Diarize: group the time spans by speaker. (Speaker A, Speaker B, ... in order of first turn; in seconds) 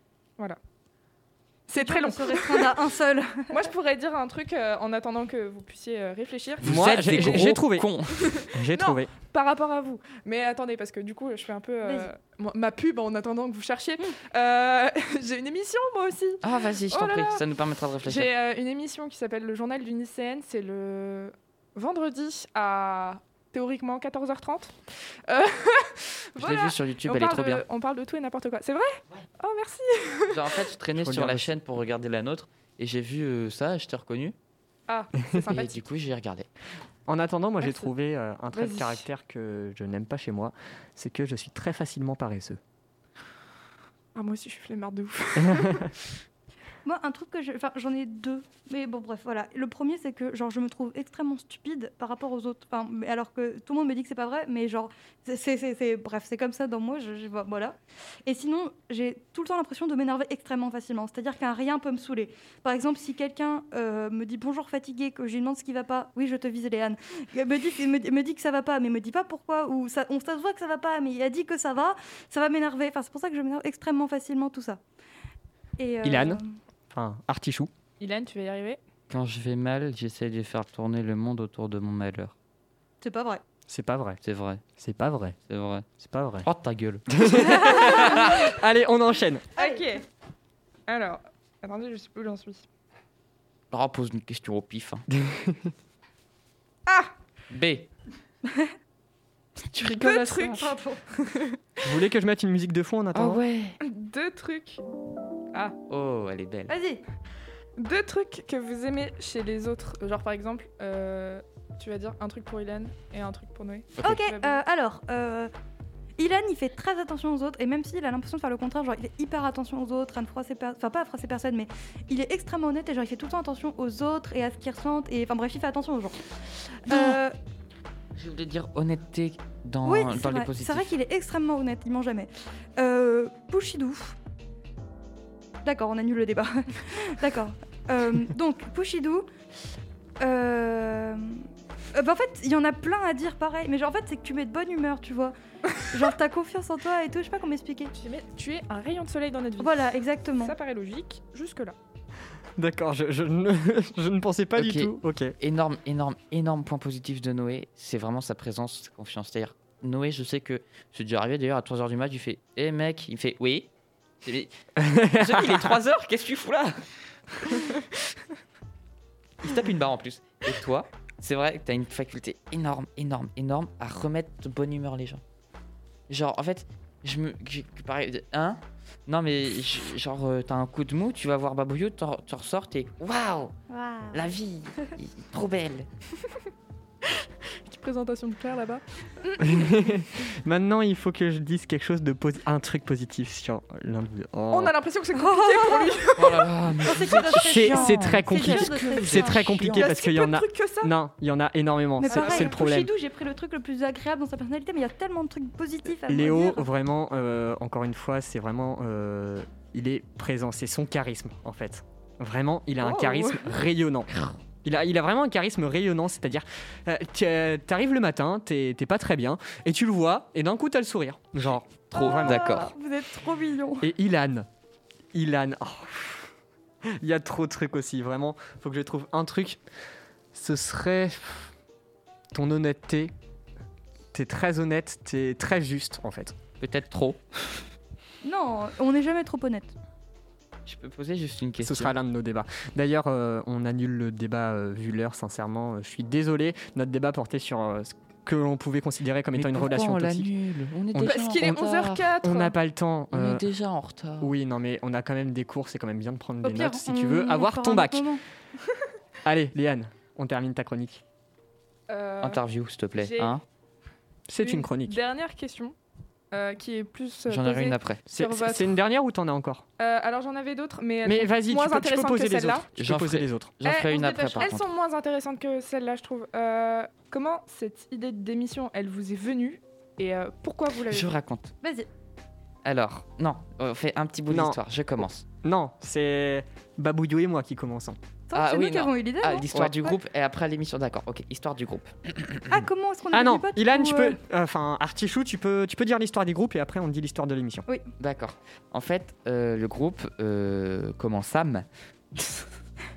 Speaker A: 1.7-2.8, 3.5-6.7, 8.2-17.4, 18.0-30.7, 34.9-35.8, 37.6-37.9, 38.5-39.0, 44.1-46.0, 78.0-78.8, 89.6-90.0, 90.9-92.7, 96.9-97.1, 99.8-101.8, 103.8-104.8, 107.8-114.6, 148.0-151.8, 187.7-189.6, 194.5-196.5, 199.7-200.9, 202.1-202.5, 251.0-252.6, 261.9-262.4, 263.0-263.4, 264.4-265.8, 266.3-268.7, 269.8-272.7, 273.6-281.1
Speaker B: 1.8-3.6, 11.8-12.1, 46.9-74.8, 75.8-76.5, 83.0-83.4, 87.6-88.2, 89.6-89.8, 100.6-101.0, 106.7-107.0, 114.0-115.5, 116.2-126.2, 126.9-127.3, 129.8-134.2, 135.6-139.3, 140.2-147.9, 149.6-150.6, 183.7-184.3, 195.1-196.1, 196.8-199.4, 202.0-206.7, 212.8-213.5, 221.9-223.9, 238.2-239.7, 256.4-258.2, 281.6-281.9, 288.3-290.0, 292.5-294.2
Speaker C: 6.6-7.9, 8.5-9.1, 30.9-31.5, 37.1-42.6, 45.4-45.8, 76.0-76.4, 76.9-77.7, 83.7-84.2, 84.8-85.4, 86.0-86.5, 87.1-89.5, 95.1-95.7, 99.8-100.7, 101.8-103.4, 152.6-155.3, 164.8-165.7, 189.4-194.7, 197.3-202.9, 206.1-214.1, 214.6-222.6, 223.8-224.5, 225.1-226.3, 226.9-229.6, 230.3-231.5, 232.3-233.1, 234.1-236.4, 241.6-250.3, 250.9-251.6, 252.2-253.5, 254.2-258.1, 259.2-261.0, 264.3-265.0, 268.1-269.6, 271.0-273.5, 284.3-284.6, 285.4-288.0, 293.1-297.7
Speaker D: 6.6-8.3, 16.4-18.3, 26.4-27.6, 30.3-34.4, 35.3-36.5, 79.1-82.3, 84.2-84.6, 85.5-85.9, 86.4-88.4, 93.7-95.1, 97.5-97.9, 99.7-100.1, 103.1-103.8, 105.9-106.7, 126.9-127.2, 128.2-130.9, 154.6-163.7, 164.2-164.5, 165.0-166.8, 167.4-167.8, 169.4-175.2, 176.1-183.6, 184.1-185.9, 196.2-199.9, 221.9-222.7, 236.6-237.6, 240.7-241.9, 249.3-252.2, 253.1-254.3, 262.2-263.4, 267.3-268.0, 272.8-274.7, 280.9-281.5, 282.6-285.2, 288.3-292.6, 298.0-302.5